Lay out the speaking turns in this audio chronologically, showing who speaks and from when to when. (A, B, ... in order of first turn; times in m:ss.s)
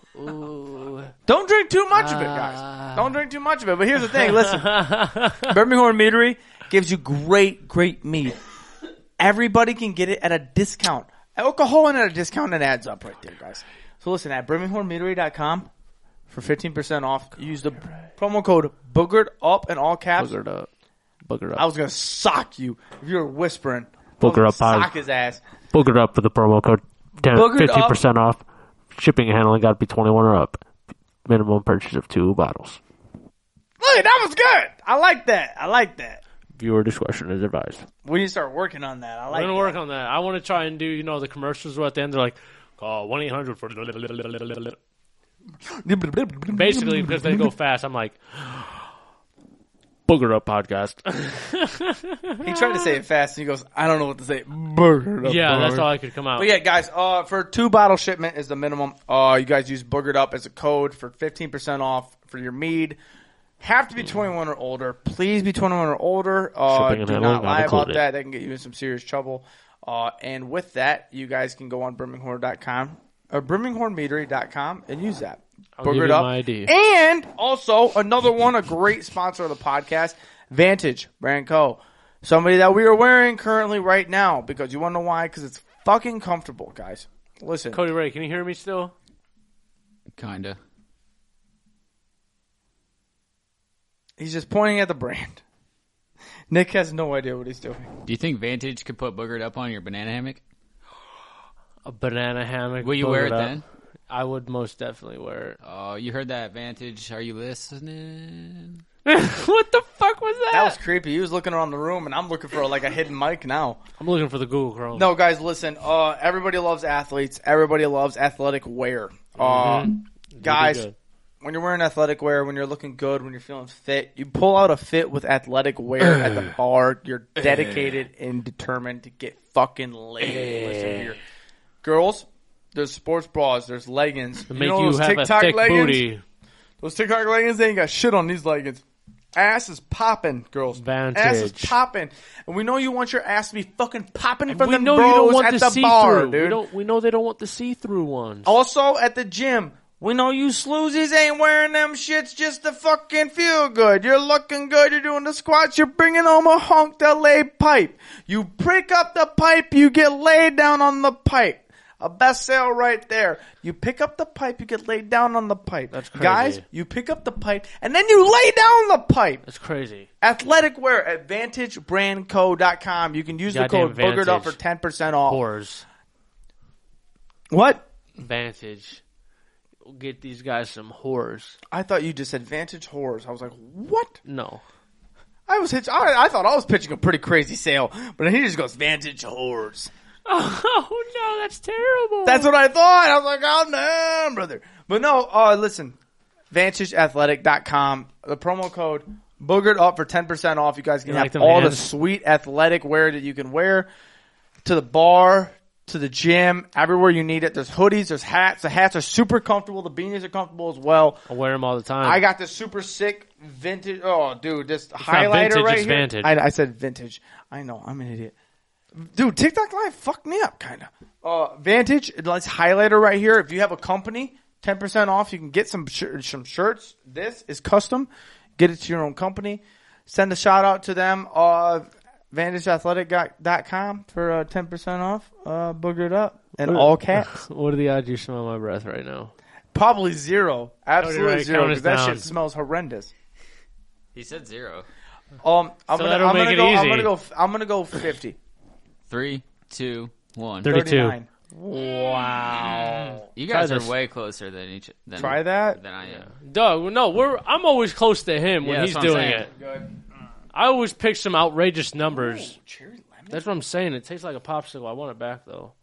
0:00.2-0:01.1 A
0:01.3-0:04.8 B
0:01.9-0:03.1 A
0:04.1-0:05.5 A
0:05.4-0:08.4 B
0:09.2-0:15.7 B
0:16.3-0:20.4 B
0:20.2-0:20.7 A
0:21.3-0:21.6 A
0:21.6-0:25.4 B
0:24.2-0:24.9 A
0:25.7-0:28.4 A
0:27.3-0:28.0 B
0:28.9-0:30.6 A
0:31.3-0:32.8 A
0:33.8-0:36.2 B
0:36.6-0:37.9 A
0:38.0-0:39.8 B
0:39.3-0:44.8 A
0:45.7-0:47.5 B
0:46.5-0:48.9 A
0:50.1-0:53.0 A
0:52.4-1:03.0 B
0:55.2-0:56.5 A
1:03.6-1:27.8 B
1:06.7-1:08.0 A
1:15.8-1:16.7 A
1:27.7-1:28.9 A
1:30.2-1:30.6 C
1:34.2-1:35.4 B
1:36.5-1:37.9 B
1:38.1-1:40.4 C
1:41.8-1:45.6 A
1:42.8-1:43.6 C
1:45.6-1:48.8 C
1:49.0-1:50.8 A
1:50.5-1:53.8 B
1:54.0-1:55.1 A
1:54.9-2:00.9 B
1:59.4-2:01.0 A
2:01.4-2:11.2 B
2:10.2-2:11.1 A
2:11.8-2:16.0 B
2:14.5-2:16.2 A
2:16.8-2:18.8 B
2:19.4-2:26.6 B
2:20.8-2:21.8 A
2:24.5-2:28.5 A
2:28.5-2:49.4 B
2:45.9-2:46.6 A
2:49.4-2:50.1 A
2:50.2-2:55.4 B
2:53.5-2:54.6 A
2:55.2-2:55.8 A
2:57.5-2:57.8 B
2:58.2-2:59.0 A
2:59.8-3:01.6 A
3:01.7-3:04.2 B
3:04.2-3:04.6 A
3:05.5-3:09.9 B
3:10.3-3:12.5 A
3:12.2-3:16.0 B
3:16.5-3:23.9 B
3:21.1-3:21.9 A
3:24.6-3:31.3 B
3:31.3-3:32.2 A
3:32.0-3:38.3 B
3:35.0-3:36.3 A
3:39.0-3:57.4 B
3:56.6-3:59.3 A
3:59.7-4:03.1 B
4:01.0-4:02.3 A
4:04.1-4:04.9 C
4:05.4-4:08.4 B
4:05.9-4:07.1 A
4:09.1-4:10.8 C
4:10.6-4:11.2 A
4:10.6-4:13.2 B
4:12.8-4:13.9 A
4:13.4-4:16.3 C
4:15.2-4:15.8 B
4:16.0-4:19.5 A
4:18.6-4:19.5 C
4:19.4-4:20.0 B
4:20.5-4:22.6 A
4:22.1-4:23.4 B
4:23.3-4:25.7 A